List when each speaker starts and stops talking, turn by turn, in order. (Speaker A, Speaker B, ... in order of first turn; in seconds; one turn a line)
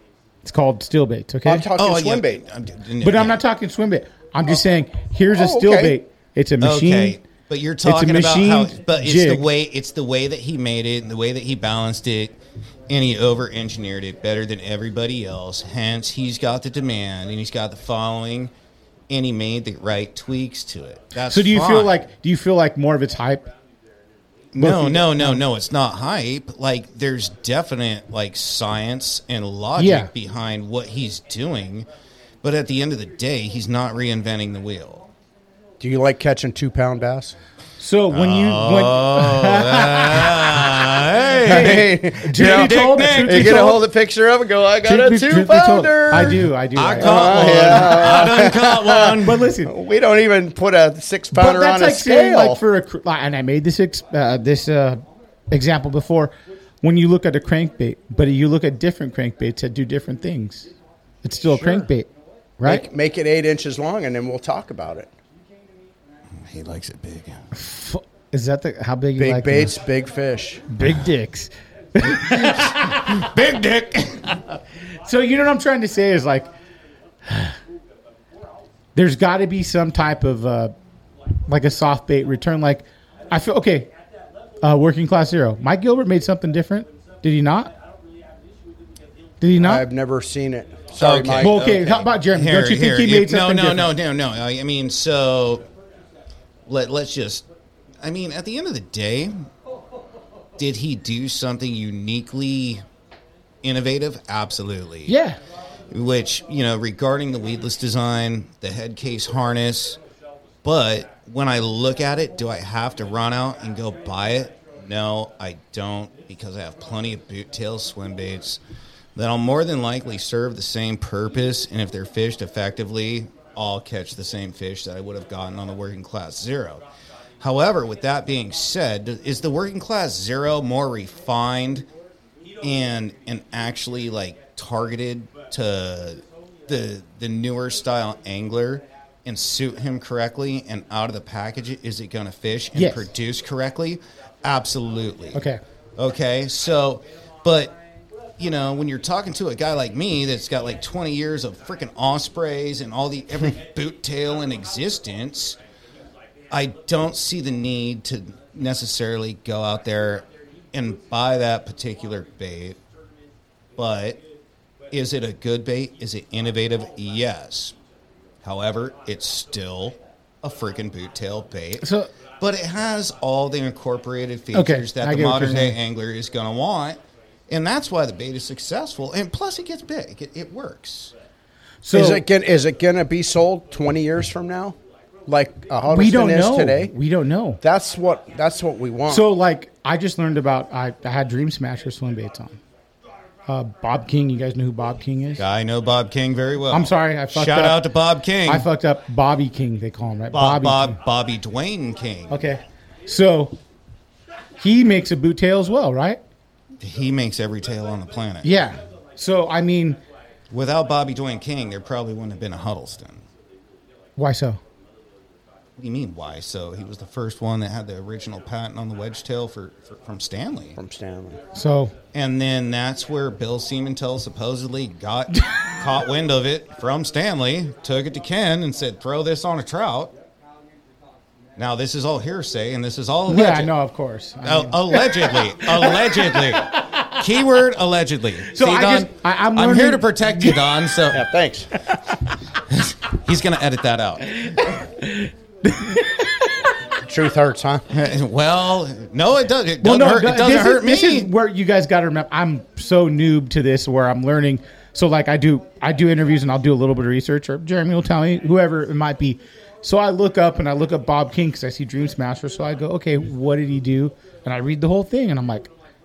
Speaker A: 0.5-1.7
Speaker B: 1.4-2.4
Speaker C: 1.8-3.4
Speaker A: 3.0-7.2
Speaker B: 5.3-6.0
Speaker C: 6.6-12.4
Speaker A: 7.8-9.5
Speaker C: 12.9-18.5
Speaker C: 19.1-21.9
Speaker A: 21.3-23.5
Speaker C: 24.5-31.9
Speaker A: 24.6-25.4
Speaker A: 29.8-30.1
Speaker C: 32.4-35.1
Speaker B: 35.8-37.4
Speaker A: 37.8-40.8
Speaker C: 38.1-43.8
Speaker B: 41.4-46.5
Speaker A: 41.5-43.8
Speaker A: 44.9-47.8
Speaker C: 46.8-49.4
Speaker B: 47.0-52.6
Speaker A: 49.2-49.7
Speaker A: 51.3-60.7
Speaker A: 61.2-62.9
Speaker B: 61.5-61.9
Speaker B: 62.6-65.1
Speaker C: 66.4-67.4
Speaker A: 67.5-69.8
Speaker B: 69.2-70.6
Speaker A: 70.7-73.3
Speaker C: 72.2-74.4
Speaker A: 75.0-76.5
Speaker A: 77.3-77.5
Speaker A: 79.0-80.8
Speaker A: 81.5-83.9
Speaker A: 84.6-87.7
Speaker A: 89.4-89.8
Speaker B: 89.6-91.6
Speaker C: 91.0-95.7
Speaker A: 91.4-93.9
Speaker C: 96.7-97.5
Speaker C: 98.0-99.4
Speaker C: 100.6-102.8
Speaker C: 103.6-105.1
Speaker A: 105.1-105.4
Speaker C: 105.9-110.0
Speaker C: 110.6-118.6
Speaker C: 119.2-126.8
Speaker C: 127.4-131.9
Speaker C: 132.6-145.4
Speaker A: 142.8-143.1
Speaker A: 145.3-145.6
Speaker C: 146.0-147.8
Speaker C: 148.4-155.6
Speaker C: 156.5-162.8
Speaker C: 163.8-164.2
Speaker C: 164.9-167.8
Speaker C: 168.4-171.9
Speaker A: 171.8-172.1
Speaker C: 172.4-181.1
Speaker A: 174.5-175.8
Speaker A: 181.8-182.2
Speaker B: 181.9-184.8
Speaker B: 185.3-186.9
Speaker A: 185.9-187.6
Speaker B: 187.6-189.2
Speaker A: 189.1-192.6
Speaker A: 193.5-195.4
Speaker C: 195.4-198.7
Speaker A: 196.7-197.8
Speaker A: 198.5-201.0
Speaker C: 200.3-202.4
Speaker A: 202.3-203.6
Speaker A: 204.6-206.2
Speaker C: 206.8-208.5
Speaker A: 208.4-210.0
Speaker C: 210.5-213.2
Speaker A: 214.2-214.6
Speaker C: 215.8-220.8
Speaker B: 220.8-221.4
Speaker A: 221.5-221.9
Speaker C: 222.1-230.1
Speaker C: 231.6-233.7
Speaker A: 233.3-237.0
Speaker C: 234.4-241.3
Speaker A: 238.5-240.6
Speaker B: 241.1-241.7
Speaker C: 242.7-244.6
Speaker A: 244.6-246.7
Speaker B: 247.1-247.8
Speaker C: 247.9-251.3
Speaker A: 249.8-265.7